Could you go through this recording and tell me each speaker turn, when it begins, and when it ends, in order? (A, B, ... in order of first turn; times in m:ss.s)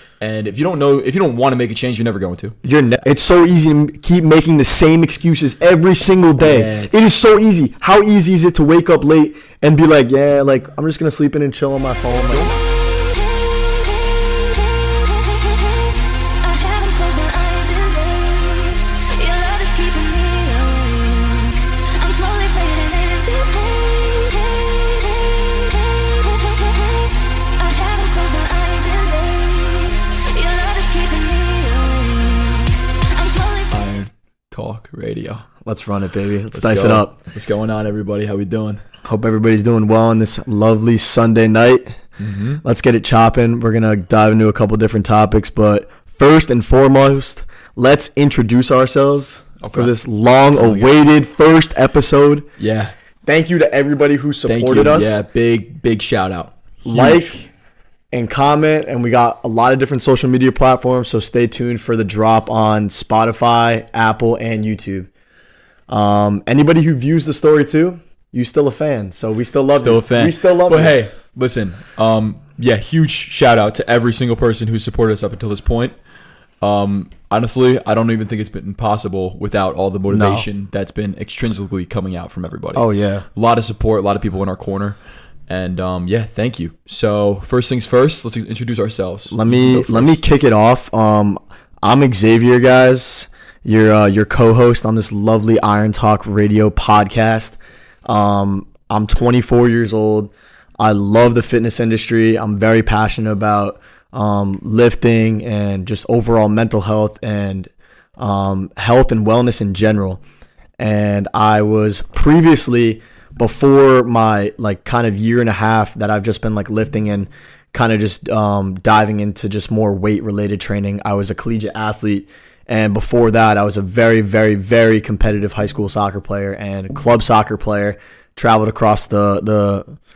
0:00.2-0:02.6 A
0:02.6-0:12.6 B
0:06.4-0:07.1 A
0:12.3-0:12.6 A
0:14.0-0:15.8 C
0:16.4-0:33.8 C
0:33.7-0:35.4 A
0:35.6-0:37.2 B
0:36.5-0:38.8 A
0:39.0-0:41.9 B
0:42.2-0:42.6 A
0:42.6-0:52.4 B
0:49.6-0:49.9 A
0:50.5-0:50.9 A
0:52.6-0:52.9 A
0:53.2-0:55.2 B
0:54.5-0:57.5 A
0:56.8-0:57.4 B
0:58.1-1:05.1 B
1:05.9-1:11.0 B
1:09.7-1:15.9 A
1:16.6-1:22.8 A
1:20.1-1:20.5 B
1:22.7-1:23.2 B
1:23.4-1:25.0 A
1:25.5-1:30.2 A
1:29.3-1:50.2 B
1:50.8-2:09.9 B